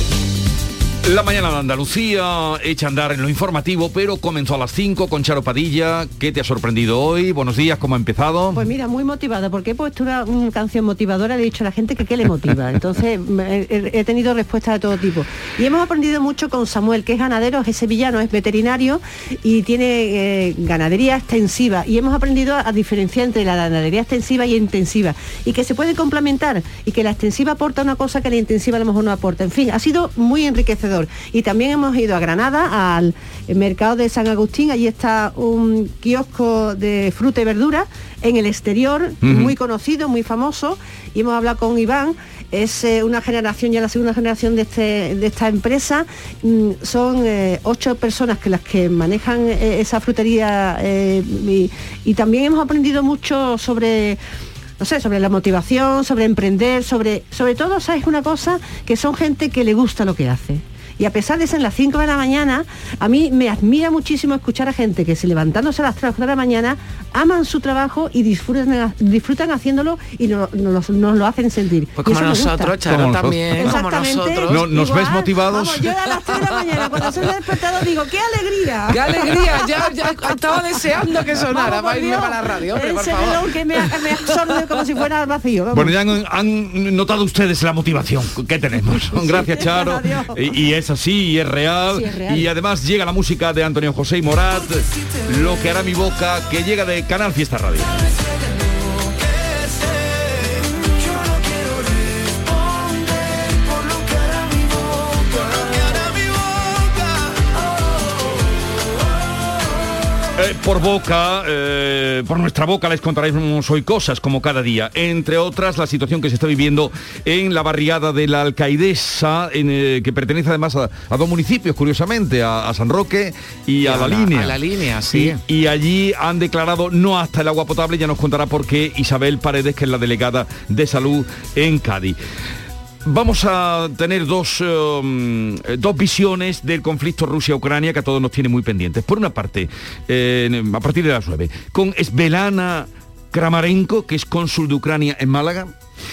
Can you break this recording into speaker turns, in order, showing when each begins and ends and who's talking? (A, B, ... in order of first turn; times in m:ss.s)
0:01.0-0:08.7 A
0:08.6-0:54.2 B
0:39.2-0:39.6 A
0:54.8-1:12.8 B
1:12.0-1:14.7 C
1:12.9-1:13.7 A
1:13.6-1:26.0 B
1:14.5-1:15.9 A
1:18.9-1:23.5 C
1:25.7-1:37.9 A
1:29.0-1:30.4 B
1:32.2-1:32.4 B
1:50.4-2:04.6 A
2:03.8-2:05.4 C
2:05.1-2:12.2 A
2:13.0-2:25.7 A